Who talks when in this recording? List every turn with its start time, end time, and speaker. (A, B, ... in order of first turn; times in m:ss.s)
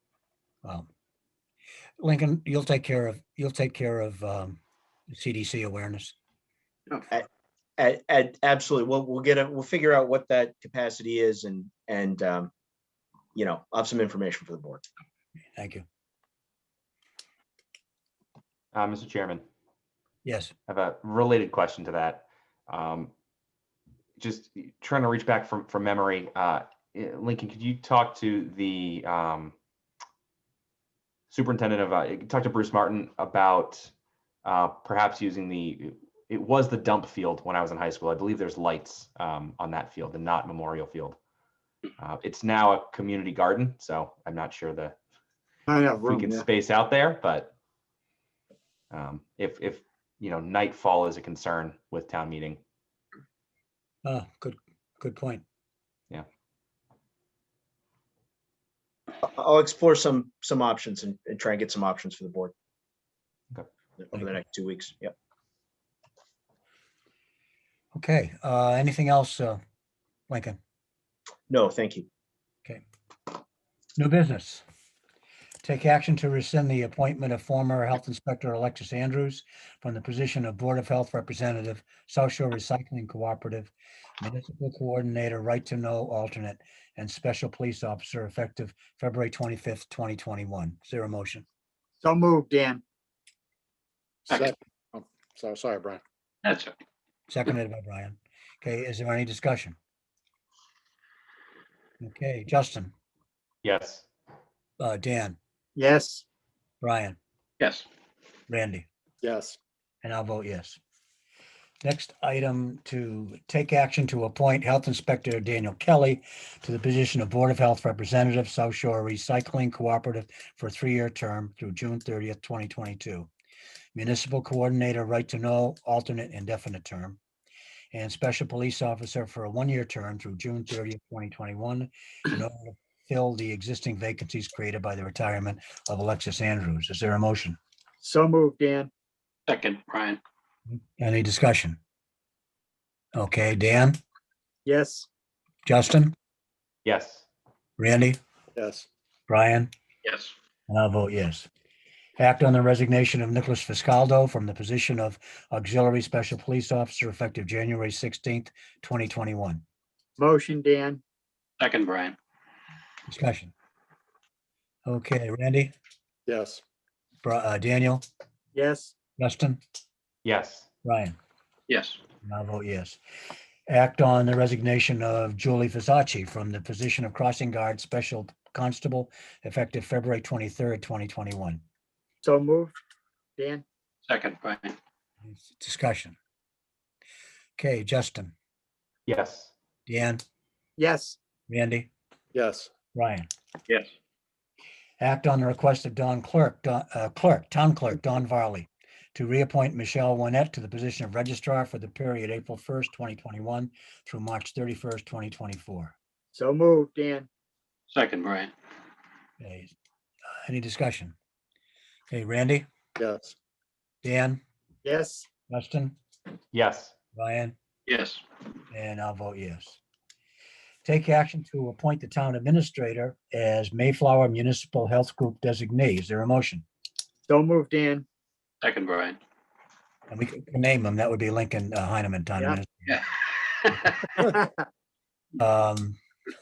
0:02.0-0:06.1 A
0:07.8-0:12.5 B
0:13.3-0:14.8 B
0:15.6-0:15.8 A
0:18.7-0:19.4 C
0:20.2-0:20.5 A
0:20.7-0:23.1 C
0:24.2-0:29.5 C
0:31.3-0:33.9 C
0:34.4-0:41.2 C
0:42.0-0:45.0 C
0:45.7-0:46.4 D
0:46.0-0:47.5 C
0:48.9-0:52.6 C
0:54.0-0:55.4 A
0:59.2-1:02.5 B
1:04.0-1:05.1 B
1:07.9-1:09.6 A
1:10.3-1:10.6 A
1:11.5-1:12.1 B
1:14.0-1:14.6 A
1:15.6-1:31.4 A
1:32.0-1:32.8 D
1:34.3-1:36.0 E
1:34.3-1:34.5 F
1:36.4-1:36.7 F
1:37.3-1:39.8 A
1:42.0-1:42.9 A
1:43.6-1:44.1 C
1:44.8-1:45.4 A
1:45.8-1:46.2 D
1:46.8-1:47.2 A
1:47.6-1:47.8 F
1:48.5-1:48.9 A
1:49.2-1:49.6 E
1:50.0-1:50.8 A
1:51.8-2:03.3 A
2:03.9-2:07.2 A
2:07.9-2:17.6 A
2:18.0-2:18.9 D
2:19.5-2:20.2 F
2:20.7-2:21.8 A
2:23.1-2:24.0 A
2:24.6-2:25.1 D
2:25.6-2:26.1 A
2:26.8-2:27.2 C
2:27.8-2:28.2 A
2:28.5-2:28.9 E
2:29.3-2:29.7 A
2:30.0-2:30.3 F
2:30.7-2:31.5 A
2:32.2-2:39.6 A
2:40.2-2:41.0 D
2:41.6-2:42.2 F
2:43.1-2:43.5 A
2:44.8-2:45.7 A
2:46.3-2:46.6 E
2:47.2-2:48.0 A
2:48.5-2:49.0 D
2:49.2-2:49.6 A
2:50.2-2:50.7 C
2:50.8-2:51.2 A
2:51.7-2:52.0 F
2:52.2-2:53.0 A
2:53.7-3:01.6 A
3:02.2-3:02.8 D
3:03.4-3:03.6 D
3:04.0-3:04.7 F
3:05.2-3:06.2 A
3:07.6-3:08.3 A
3:09.1-3:09.5 C
3:09.9-3:10.2 A
3:10.8-3:11.2 D
3:11.5-3:11.9 A
3:12.3-3:12.7 E
3:12.9-3:13.3 A
3:15.0-3:25.9 A
3:26.3-3:27.3 D
3:27.9-3:28.5 F
3:29.4-3:29.7 A
3:30.4-3:31.1 A
3:32.1-3:32.6 A
3:33.0-3:33.4 E
3:34.0-3:34.4 A
3:34.8-3:35.3 D
3:35.5-3:36.0 A
3:36.5-3:36.9 C
3:37.1-3:37.5 A
3:37.9-3:38.2 F
3:38.7-3:39.8 A
3:40.8-3:46.6 A
3:47.3-3:48.0 D
3:48.6-3:49.2 F
3:50.1-3:52.8 A
3:52.9-3:54.1 F
3:54.3-3:54.6 D
3:55.4-3:56.0 A